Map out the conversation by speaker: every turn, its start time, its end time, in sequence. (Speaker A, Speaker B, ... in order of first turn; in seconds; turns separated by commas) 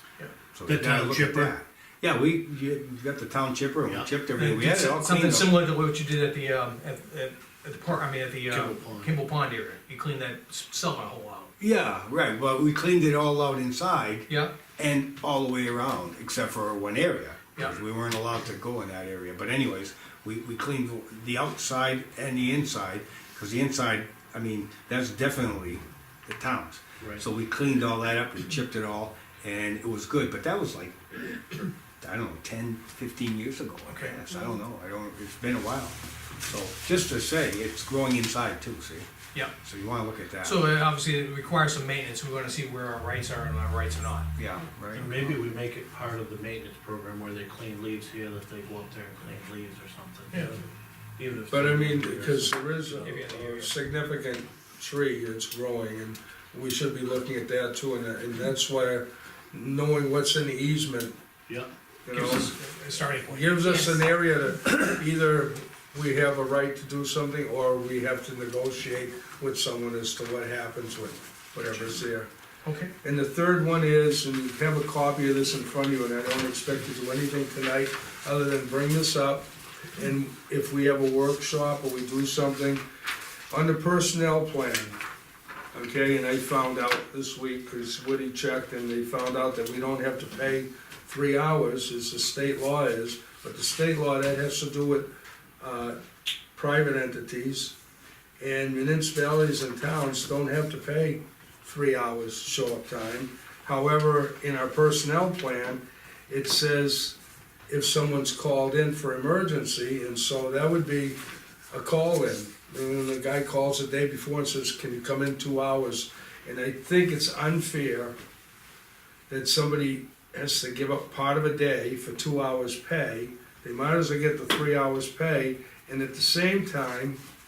Speaker A: 0.5-5.6, Speaker B: 0.6-1.5, Speaker B: 3.9-4.1, Speaker C: 4.3-11.5, Speaker B: 8.5-9.1, Speaker A: 11.6-31.4, Speaker C: 14.3-14.5, Speaker A: 32.0-39.1, Speaker C: 33.9-34.2, Speaker A: 39.6-40.6, Speaker C: 40.4-44.3, Speaker A: 44.4-45.4, Speaker B: 44.9-50.6, Speaker C: 50.3-50.6, Speaker B: 51.2-53.2, Speaker D: 51.5-61.1, Speaker C: 53.0-53.7, Speaker D: 62.0-62.5, Speaker C: 62.1-64.0, Speaker D: 63.2-72.3, Speaker C: 71.6-72.0, Speaker C: 72.6-72.9, Speaker D: 73.0-82.8, Speaker D: 83.5-85.0, Speaker D: 85.7-95.1, Speaker D: 95.6-96.0, Speaker D: 96.5-97.7, Speaker D: 98.4-107.2, Speaker D: 107.7-111.2, Speaker D: 111.7-118.1, Speaker D: 119.3-127.2